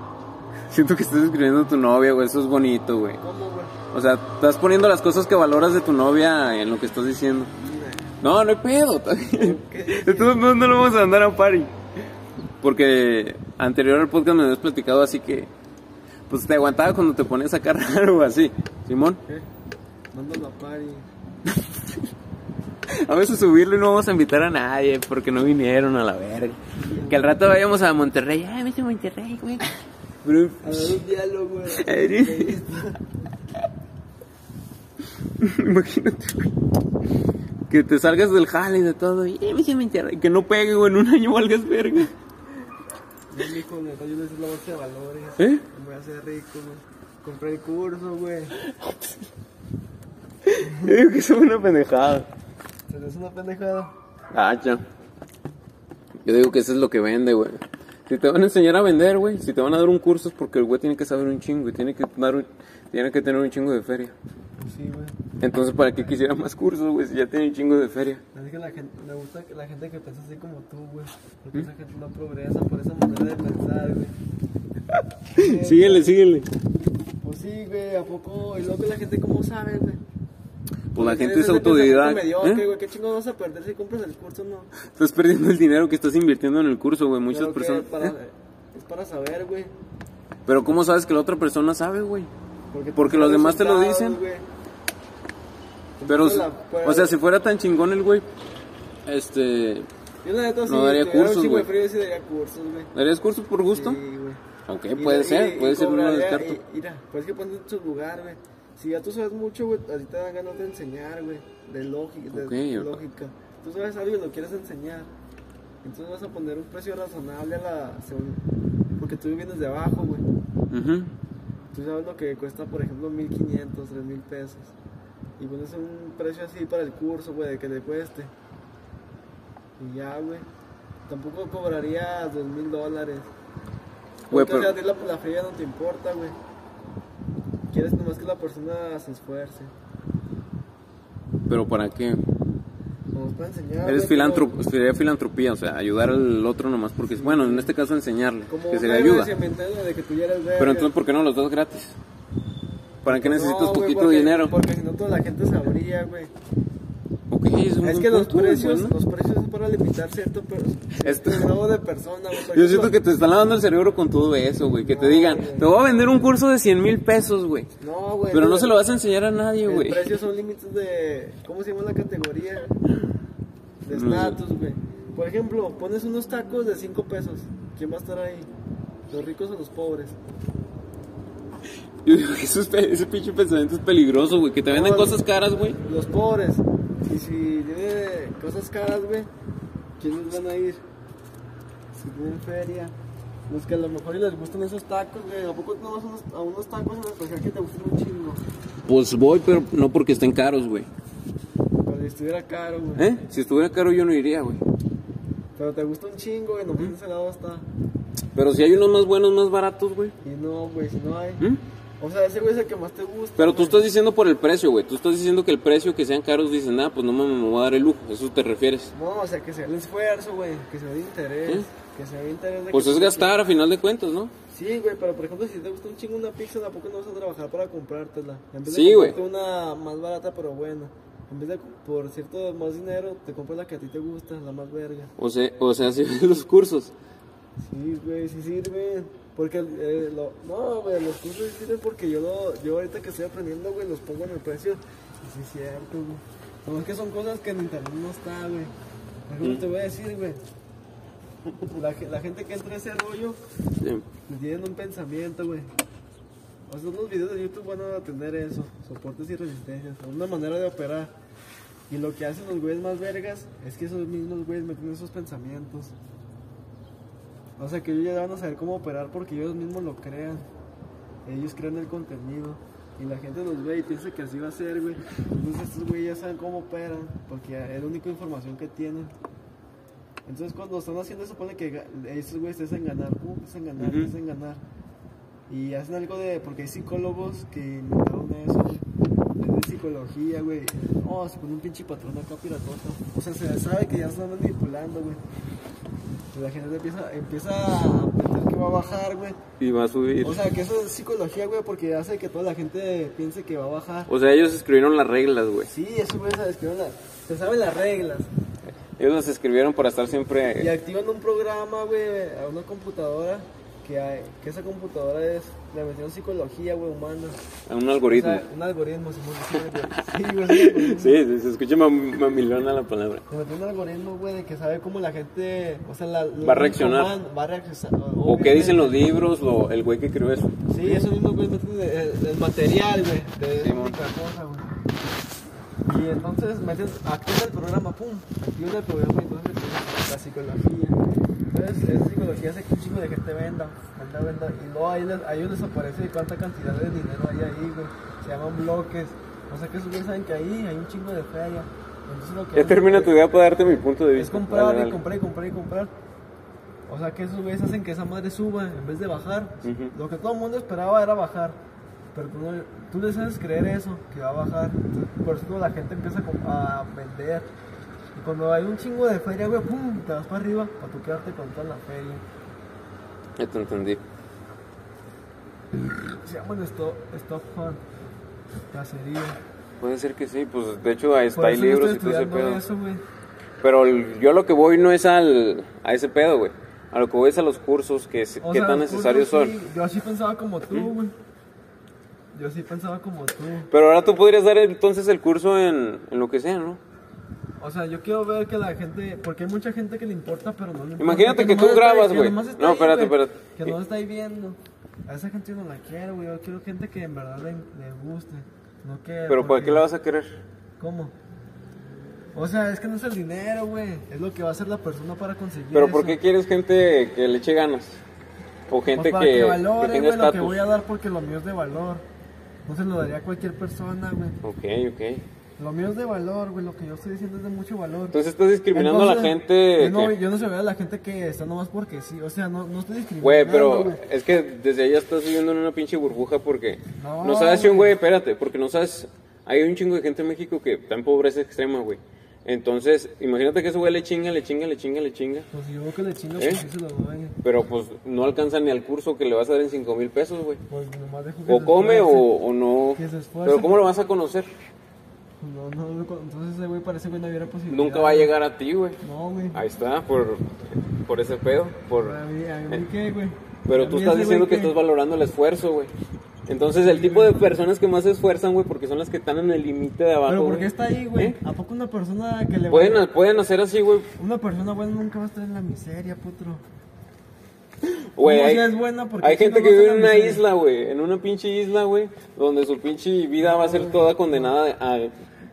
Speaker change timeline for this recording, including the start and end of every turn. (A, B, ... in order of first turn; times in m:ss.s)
0:00.7-0:03.2 A
0:03.2-0:03.8 B
0:03.9-0:07.5 A
0:07.6-0:08.2 B
0:08.2-0:11.7 A
0:09.3-0:10.4 B
0:12.6-0:15.5 A
0:16.3-0:19.2 A
0:20.1-0:21.1 B
0:21.6-0:22.0 A
0:22.9-0:29.7 A
0:26.8-0:27.2 B
0:30.2-0:31.0 A
0:30.6-0:33.0 B
0:31.7-0:32.6 A
0:35.4-0:36.5 A
0:37.7-0:42.1 A
0:43.3-0:48.5 B
0:45.4-0:45.6 A
0:48.6-0:49.1 A
0:50.4-0:52.3 A
0:50.6-0:51.0 B
0:52.9-0:53.9 B
0:54.3-0:54.8 A
0:56.2-1:04.2 A
1:04.6-1:05.2 B
1:05.4-1:08.2 A
1:08.3-1:14.1 B
1:14.9-1:16.5 A
1:15.3-1:16.1 B
1:17.2-1:20.0 B
1:20.9-1:22.6 A
1:21.0-1:24.7 B
1:24.8-1:28.1 A
1:27.3-1:29.7 B
1:30.4-1:32.3 A
1:32.7-1:34.4 B
1:33.0-1:34.2 A
1:36.0-1:37.1 B
1:36.1-1:38.3 A
1:39.0-1:39.9 A
1:40.2-1:42.9 B
1:40.6-1:41.7 A
1:42.9-1:44.0 A
1:43.7-1:44.4 B
1:44.7-1:46.6 A
1:44.9-1:55.1 B
1:52.3-1:53.0 A
1:55.8-1:58.4 B
1:59.0-2:00.2 B
2:00.7-2:01.1 A
2:01.7-2:04.7 B
2:05.4-2:08.3 B
2:09.8-2:10.5 B
2:11.1-2:13.3 B
2:14.3-2:16.4 B
2:14.3-2:14.7 A
2:17.7-2:19.7 B
2:21.5-2:22.2 A
2:23.1-2:24.6 B
2:23.8-2:29.3 A
2:27.0-2:27.7 B
2:28.5-2:30.9 B
2:30.6-2:32.0 A
2:33.0-2:34.5 A
2:33.0-2:36.3 B
2:37.3-2:38.9 A
2:37.8-2:43.0 B
2:41.0-2:41.5 A
2:42.4-2:47.7 A
2:44.8-2:46.2 B
2:47.8-2:48.8 B
2:48.3-2:50.0 A
2:49.6-2:52.7 B
2:53.8-2:58.5 B
2:53.9-2:54.4 A
2:59.1-3:00.2 B
3:02.0-3:05.8 A
3:04.7-3:05.2 B
3:05.8-3:09.3 B
3:10.0-3:10.8 B
3:11.9-3:12.9 B
3:13.5-3:18.4 B
3:18.8-3:20.9 A
3:21.8-3:23.1 B
3:23.0-3:24.6 A
3:25.6-3:27.7 B
3:28.3-3:30.2 A
3:30.2-3:31.4 B
3:32.0-3:33.9 B
3:33.4-3:38.9 A
3:38.9-3:43.4 B
3:42.7-3:44.3 A
3:44.5-3:55.1 B
3:48.6-3:49.2 A
3:55.2-3:56.9 A
3:57.6-4:08.7 B
4:09.3-4:10.4 B
4:09.4-4:09.7 A
4:11.6-4:13.4 B
4:13.8-4:14.0 A
4:14.3-4:15.7 B
4:16.7-4:21.1 B
4:21.9-4:25.9 B
4:27.6-4:30.4 B
4:31.2-4:39.1 B
4:40.2-4:44.6 B
4:43.8-4:44.1 A
4:45.5-4:55.2 B
4:56.3-4:59.4 B
4:59.6-5:00.4 A
5:00.2-5:04.1 B
5:04.1-5:05.7 A
5:05.7-5:08.3 B
5:09.0-5:10.7 A
5:10.5-5:17.4 B
5:17.7-5:18.4 A
5:18.1-5:21.2 B
5:20.5-5:23.2 A
5:23.3-5:29.1 B
5:26.4-5:27.1 A
5:28.2-5:31.1 A
5:30.7-5:34.8 B
5:33.6-5:34.0 A
5:35.8-5:41.0 B
5:41.5-5:55.9 B
5:52.5-5:55.0 A
5:56.9-6:01.6 B
5:59.6-5:59.9 A
6:02.1-6:07.5 B
6:08.1-6:12.2 B
6:13.4-6:14.0 A
6:15.8-6:17.8 B
6:18.7-6:19.4 B
6:19.8-6:22.6 A
6:21.3-6:23.0 B
6:23.6-6:29.5 A
6:28.4-6:31.1 B
6:32.3-6:33.7 B
6:33.7-6:36.8 A
6:37.6-6:49.9 B
6:41.0-6:43.7 A
6:49.3-6:50.4 A
6:50.8-6:51.1 B
6:52.3-6:56.2 B
6:55.7-6:58.0 A
6:58.7-7:00.6 A
6:58.9-7:02.0 B
7:02.6-7:04.4 B
7:04.4-7:05.2 A
7:05.6-7:08.2 B
7:08.1-7:10.1 A
7:08.7-7:14.0 B
7:13.2-7:25.5 A
7:16.9-7:18.0 B
7:25.5-7:27.4 B
7:26.4-7:26.6 A
7:27.4-7:30.6 A
7:30.7-7:32.3 B
7:31.5-7:34.5 A
7:33.0-7:33.8 B
7:35.4-7:38.3 B
7:37.7-7:39.0 A
7:39.0-7:39.6 B
7:39.5-7:42.2 A
7:41.9-7:44.8 B
7:43.6-7:45.9 A
7:46.5-7:51.4 A
7:46.7-7:47.6 B
7:50.3-7:53.0 B
7:52.7-7:54.1 A
7:54.2-7:56.6 B
7:57.8-8:05.2 A
7:58.2-8:00.4 B
8:03.4-8:04.5 B